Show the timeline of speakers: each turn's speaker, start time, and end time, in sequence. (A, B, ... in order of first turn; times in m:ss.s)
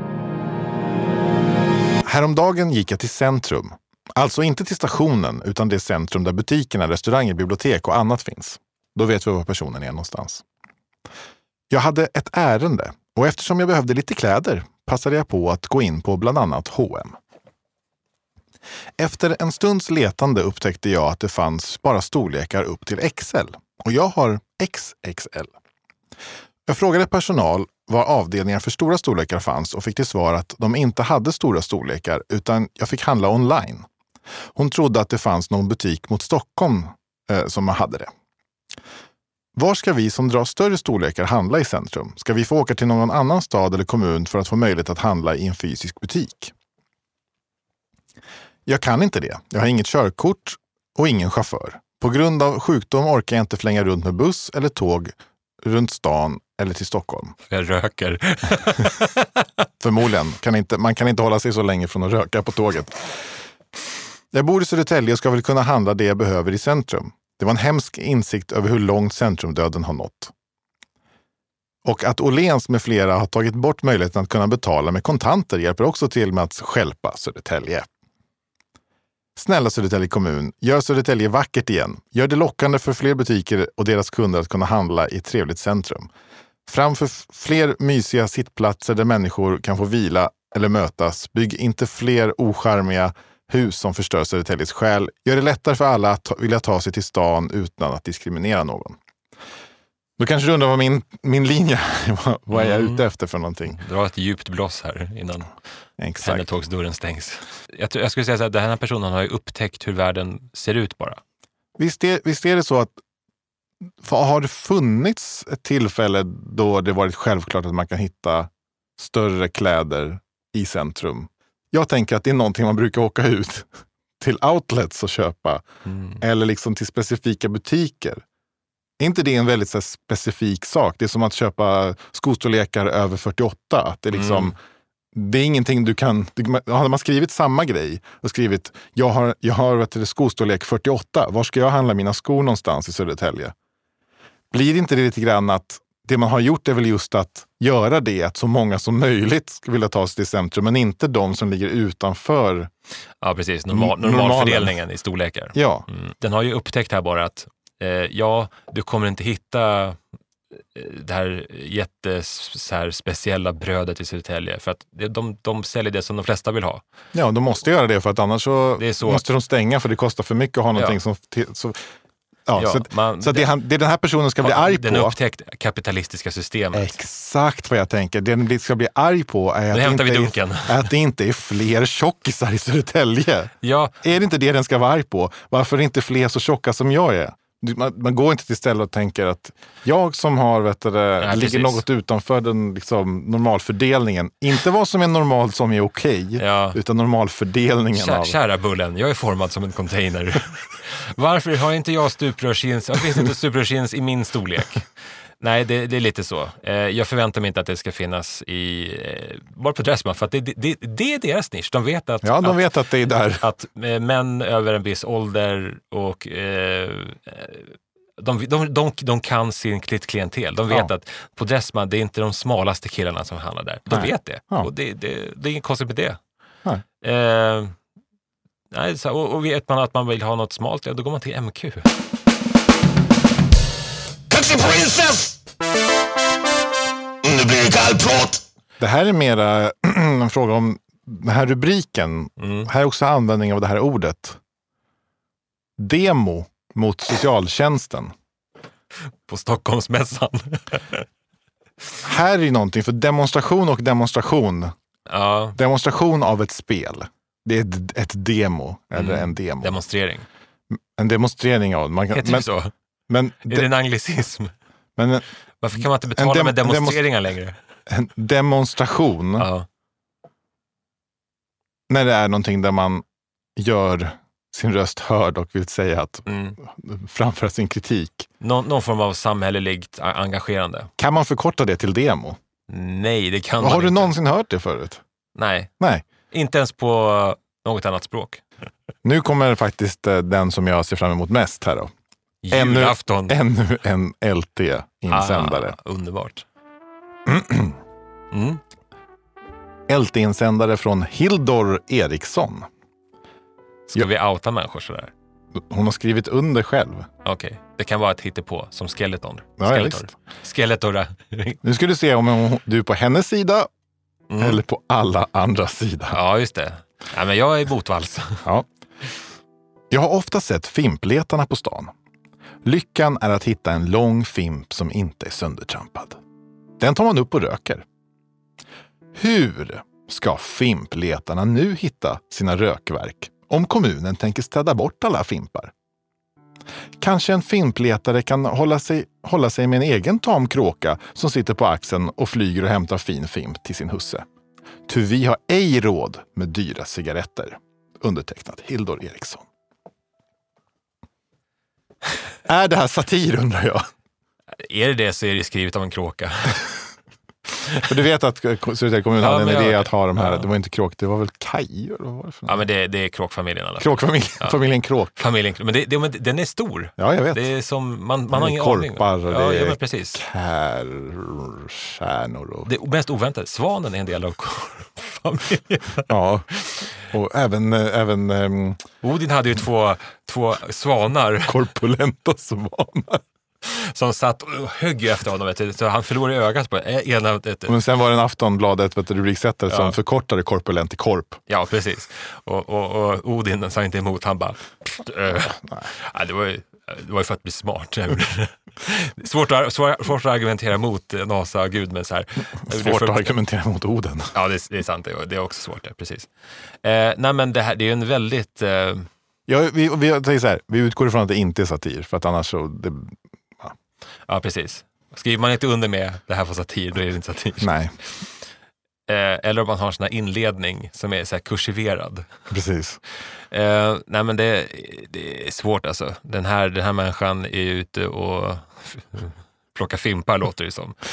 0:02.0-0:10.4 A
0:11.7-0:17.2 A
0:19.0-0:25.5 A
0:26.7-0:33.9 A
0:34.5-0:38.1 A
0:39.5-0:46.5 A
0:48.6-0:57.3 A
0:57.5-0:59.3 B
0:59.8-1:03.1 A
1:04.3-1:10.3 A
1:11.8-1:17.9 A
1:19.4-1:26.1 A
1:26.7-1:39.0 A
1:40.2-1:43.8 A
1:42.5-1:43.0 B
1:43.6-1:45.5 B
1:46.0-1:46.5 A
1:46.2-1:51.2 B
1:51.8-1:53.0 A
1:54.0-2:03.7 A
2:04.2-2:05.6 A
2:05.9-2:06.2 B
2:06.2-2:08.2 A
2:09.0-2:14.6 A
2:14.1-2:14.5 B
2:15.1-2:23.5 A
2:24.5-2:32.7 A
2:33.2-2:40.0 B
2:33.7-2:34.8 A
2:35.5-2:35.8 A
2:40.7-2:46.8 B
2:47.1-2:51.8 A
2:48.8-2:49.2 B
2:52.5-2:55.2 A
2:52.6-2:53.5 B
2:54.4-2:56.9 B
2:56.7-3:18.4 A
2:59.7-3:00.9 B
3:03.6-3:03.9 B
3:11.2-3:11.8 B
3:16.4-3:16.8 B
3:17.9-3:24.8 B
3:25.4-3:32.6 B
3:32.2-3:33.4 A
3:33.4-3:46.2 B
3:43.9-3:44.7 A
3:47.0-3:47.7 B
3:48.7-3:51.9 B
3:54.3-3:55.4 C
3:57.2-3:58.4 C
3:58.8-4:04.4 A
4:02.4-4:02.7 B
4:05.8-4:08.1 A
4:09.3-4:11.0 B
4:12.0-4:14.7 A
4:15.1-4:15.6 B
4:15.5-4:19.8 A
4:18.9-4:20.2 B
4:21.0-4:22.5 A
4:22.1-4:22.7 B
4:23.1-4:23.7 A
4:23.5-4:24.5 B
4:25.0-4:25.2 A
4:25.6-4:27.6 B
4:26.1-4:27.0 A
4:27.9-4:29.5 A
4:29.4-4:29.6 B
4:31.9-4:33.0 A
4:33.6-4:38.3 A
4:36.2-4:36.6 B
4:38.4-4:40.9 B
4:41.0-4:42.4 A
4:42.7-4:44.1 B
4:43.6-4:45.0 A
4:45.4-4:45.7 B
4:46.3-4:48.4 B
4:49.0-4:51.9 A
4:52.4-4:53.4 B
4:52.5-4:55.7 A
4:55.1-4:56.4 B
4:57.2-4:57.8 A
4:58.3-4:58.6 B
4:59.9-5:02.7 A
5:03.9-5:05.1 B
5:05.5-5:07.1 A
5:07.2-5:11.6 B
5:09.6-5:10.1 A
5:11.6-5:13.7 A
5:14.3-5:14.6 B
5:14.4-5:16.2 A
5:16.1-5:18.4 B
5:19.9-5:21.9 A
5:22.6-5:26.2 A
5:26.8-5:27.8 A
5:29.1-5:35.7 A
5:37.0-5:44.2 A
5:44.9-5:49.4 A
5:52.4-5:53.9 A
5:54.6-5:56.8 B
5:57.8-6:02.6 A
5:59.2-6:00.4 B
6:02.5-6:04.6 B
6:03.8-6:05.1 A
6:05.2-6:10.2 B
6:07.0-6:07.4 A
6:08.3-6:12.7 A
6:12.6-6:16.1 B
6:16.1-6:16.5 A
6:17.0-6:18.8 A
6:19.0-6:21.6 B
6:21.4-6:23.2 A
6:23.6-6:27.8 B
6:27.7-6:31.4 A
6:29.7-6:30.0 B
6:31.5-6:43.3 B
6:35.6-6:35.9 A
6:42.7-6:44.3 A
6:44.3-6:46.3 B
6:46.8-6:49.1 B
6:49.5-6:53.7 A
6:54.3-6:57.7 B
6:57.6-6:57.9 A
6:59.1-7:02.3 B
7:02.5-7:03.0 A
7:03.5-7:10.9 B